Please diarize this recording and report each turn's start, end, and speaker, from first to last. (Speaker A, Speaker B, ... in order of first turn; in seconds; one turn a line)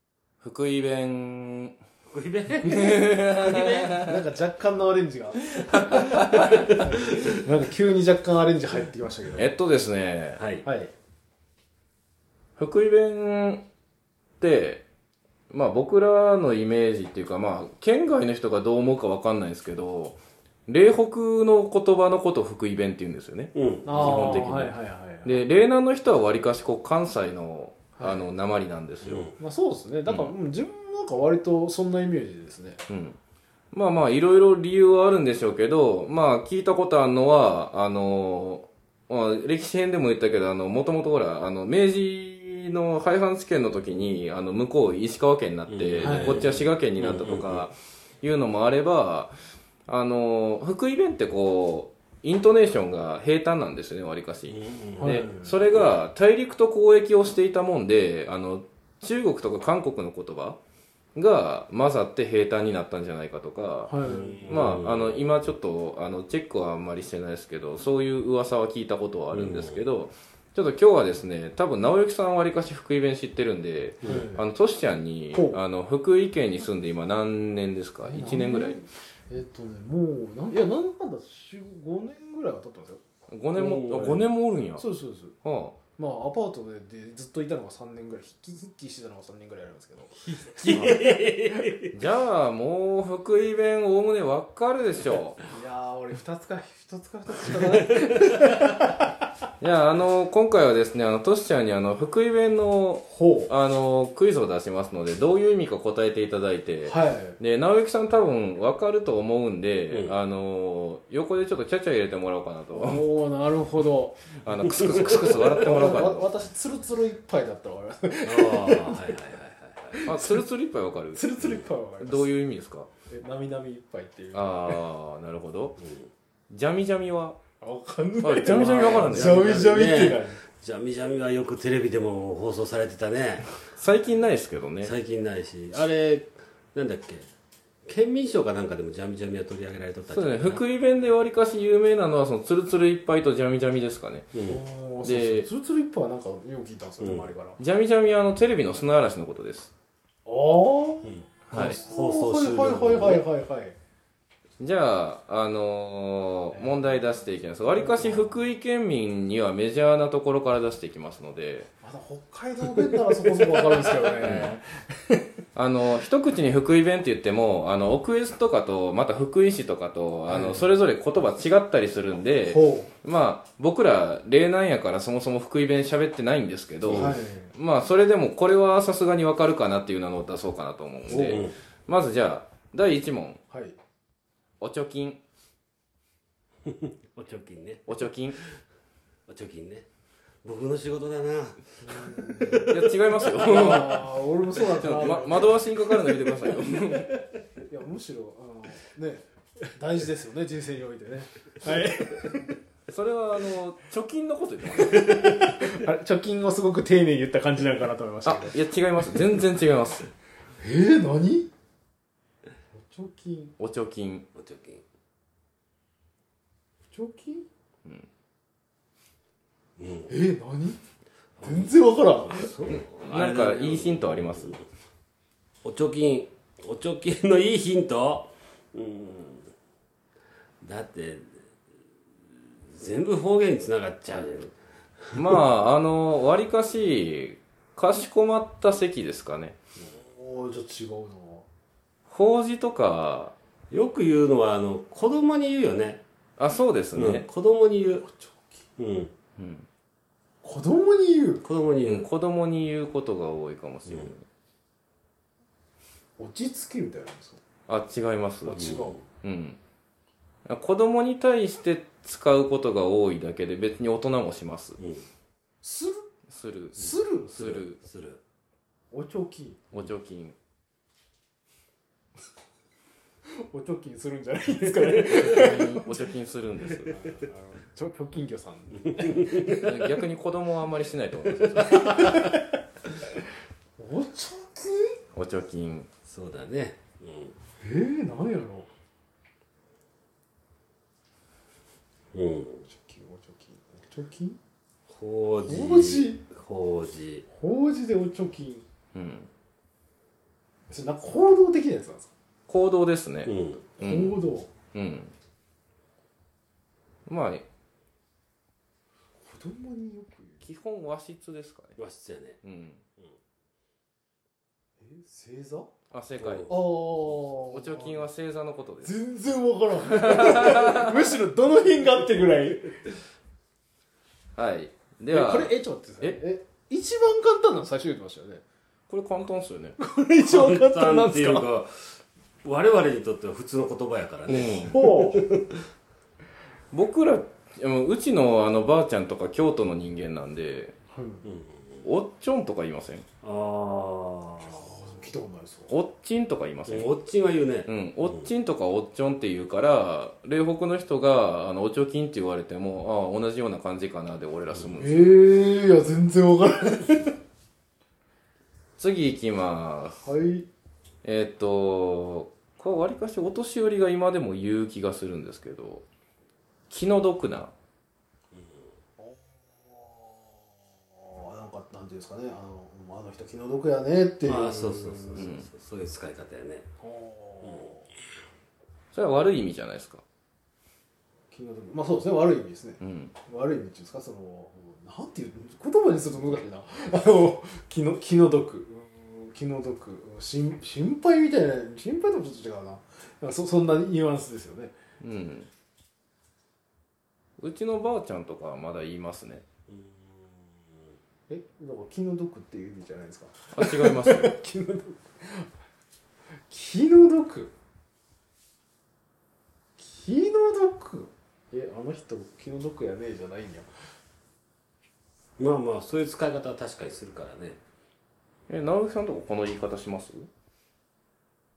Speaker A: 0.4-1.8
Speaker B: 2.1-4.1
Speaker A: 2.6-4.1
Speaker C: 4.0-9.5
Speaker A: 6.0-6.8
Speaker B: 6.4-7.4
Speaker A: 9.4-10.4
Speaker B: 10.4-10.7
Speaker C: 10.6-10.9
Speaker A: 12.6-13.6
Speaker A: 14.4-14.8
Speaker A: 15.5-29.3
Speaker B: 23.5-24.5
Speaker C: 23.9-25.4
Speaker C: 28.0-28.2
Speaker B: 29.0-29.4
Speaker C: 29.4-32.8
Speaker A: 30.1-30.3
Speaker A: 32.9-33.2
Speaker A: 33.7-49.3
Speaker B: 45.7-47.7
Speaker C: 46.0-46.4
Speaker A: 49.9-60.6
Speaker B: 54.5-55.9
Speaker C: 55.0-55.6
Speaker A: 61.1-78.8
Speaker C: 63.9-64.8
Speaker B: 64.0-65.2
Speaker B: 69.3-69.8
Speaker C: 74.0-74.4
Speaker C: 75.3-75.6
Speaker C: 78.0-83.0
Speaker A: 83.3-84.9
Speaker B: 83.6-84.2
Speaker C: 83.9-84.2
Speaker C: 84.8-85.3
Speaker A: 85.4-85.8
Speaker C: 86.0-91.8
Speaker B: 90.6-91.9
Speaker A: 90.7-91.0
Speaker A: 91.9-95.4
Speaker C: 95.5-99.0
Speaker B: 97.5-98.7
Speaker A: 99.6-113.0
Speaker C: 103.1-103.5
Speaker C: 106.8-107.4
Speaker B: 109.9-110.1
Speaker C: 112.7-119.2
Speaker A: 114.4-116.3
Speaker B: 114.6-116.0
Speaker B: 118.2-120.0
Speaker C: 119.9-120.5
Speaker A: 120.1-121.3
Speaker C: 121.1-122.3
Speaker B: 121.4-121.7
Speaker A: 122.0-122.9
Speaker C: 123.1-124.8
Speaker A: 124.3-125.8
Speaker B: 125.8-126.1
Speaker A: 126.5-127.4
Speaker C: 127.6-130.4
Speaker A: 128.2-129.5
Speaker B: 128.5-133.6
Speaker A: 133.7-134.9
Speaker B: 134.8-137.3
Speaker B: 137.8-140.6
Speaker A: 140.1-144.3
Speaker B: 144.3-144.6
Speaker C: 144.5-147.6
Speaker A: 145.0-145.5
Speaker B: 147.0-147.3
Speaker A: 147.6-149.7
Speaker C: 150.2-153.8
Speaker B: 151.0-153.2
Speaker A: 151.5-151.8
Speaker A: 154.6-161.7
Speaker C: 156.5-158.4
Speaker C: 161.8-165.2
Speaker A: 164.2-164.6
Speaker A: 165.5-183.4
Speaker C: 170.3-170.7
Speaker C: 172.5-172.9
Speaker B: 176.8-177.2
Speaker C: 176.8-177.5
Speaker C: 181.1-181.5
Speaker B: 181.1-181.6
Speaker C: 183.5-183.8
Speaker A: 184.6-185.2
Speaker B: 186.7-188.5
Speaker A: 187.9-188.4
Speaker B: 189.3-189.9
Speaker B: 190.4-191.9
Speaker C: 191.8-195.7
Speaker B: 192.4-193.8
Speaker A: 192.6-197.2
Speaker C: 196.4-199.2
Speaker C: 199.8-202.5
Speaker A: 202.9-205.2
Speaker C: 204.9-209.3
Speaker B: 205.0-205.5
Speaker A: 208.2-210.1
Speaker C: 210.6-211.5
Speaker C: 212.7-213.5
Speaker A: 213.6-214.2
Speaker B: 214.3-214.8
Speaker C: 216.9-217.5
Speaker B: 219.8-220.2
Speaker C: 220.1-220.8
Speaker B: 221.4-224.7
Speaker C: 221.4-222.7
Speaker A: 222.7-224.6
Speaker B: 225.6-229.5
Speaker B: 230.6-231.3
Speaker B: 232.7-234.6
Speaker A: 235.2-239.6
Speaker C: 239.8-241.5
Speaker A: 242.1-243.3
Speaker B: 243.7-246.0
Speaker A: 246.4-247.2
Speaker B: 246.9-248.1
Speaker C: 248.1-248.6
Speaker B: 248.8-249.1
Speaker A: 249.4-249.7
Speaker C: 250.4-251.5
Speaker B: 251.4-252.1
Speaker A: 251.8-254.2
Speaker B: 253.9-254.1
Speaker C: 256.2-257.4
Speaker A: 257.7-259.6
Speaker C: 258.4-259.0
Speaker B: 258.6-259.0
Speaker A: 260.4-264.8
Speaker B: 264.8-265.1
Speaker C: 265.6-266.0
Speaker A: 266.3-267.8
Speaker C: 266.7-267.3
Speaker B: 266.7-268.2
Speaker C: 268.9-269.8
Speaker A: 269.7-270.3
Speaker C: 273.5-276.1
Speaker A: 275.0-277.0
Speaker C: 276.8-280.0
Speaker B: 279.1-279.5
Speaker A: 279.6-282.0
Speaker C: 281.6-282.4
Speaker B: 281.7-282.1
Speaker C: 283.8-284.9
Speaker A: 285.1-285.9
Speaker B: 286.1-287.3
Speaker C: 287.6-288.7
Speaker B: 292.1-292.6
Speaker C: 292.6-294.4
Speaker B: 294.9-297.3
Speaker C: 295.4-296.3
Speaker C: 297.3-298.6
Speaker A: 298.9-299.3
Speaker C: 300.7-302.1
Speaker A: 302.5-304.2
Speaker B: 303.2-303.8
Speaker C: 303.8-304.5
Speaker A: 304.7-305.1
Speaker A: 307.1-307.4
Speaker C: 309.2-310.5
Speaker A: 310.4-311.8
Speaker B: 311.8-312.4
Speaker A: 312.4-312.8
Speaker C: 314.8-315.7
Speaker A: 315.9-318.9
Speaker B: 316.2-316.5
Speaker C: 316.4-318.1
Speaker C: 318.8-322.9
Speaker A: 319.9-320.9
Speaker A: 324.4-326.2
Speaker C: 325.1-328.4
Speaker A: 328.9-329.8
Speaker C: 329.8-331.5
Speaker B: 330.2-335.6
Speaker A: 334.3-334.8
Speaker C: 334.4-335.3
Speaker A: 336.7-340.7
Speaker C: 340.9-341.2
Speaker B: 341.2-341.6
Speaker A: 341.8-343.0
Speaker B: 343.2-344.7
Speaker C: 344.4-345.7
Speaker A: 345.7-346.9
Speaker B: 346.7-348.3
Speaker A: 347.6-355.2
Speaker C: 354.8-357.1
Speaker A: 358.8-360.0
Speaker C: 360.0-360.5
Speaker A: 361.0-365.8
Speaker A: 366.7-367.5
Speaker C: 369.0-375.3
Speaker B: 374.2-376.7
Speaker A: 375.1-375.5
Speaker C: 376.8-377.9
Speaker B: 377.4-377.7
Speaker A: 378.9-380.0
Speaker C: 381.3-394.7
Speaker A: 382.8-383.1
Speaker A: 395.0-395.5
Speaker A: 397.4-399.4
Speaker B: 399.7-400.8
Speaker C: 401.3-405.5
Speaker A: 403.5-404.3
Speaker C: 406.5-407.5
Speaker C: 409.8-413.7
Speaker B: 415.4-417.6
Speaker A: 418.5-420.3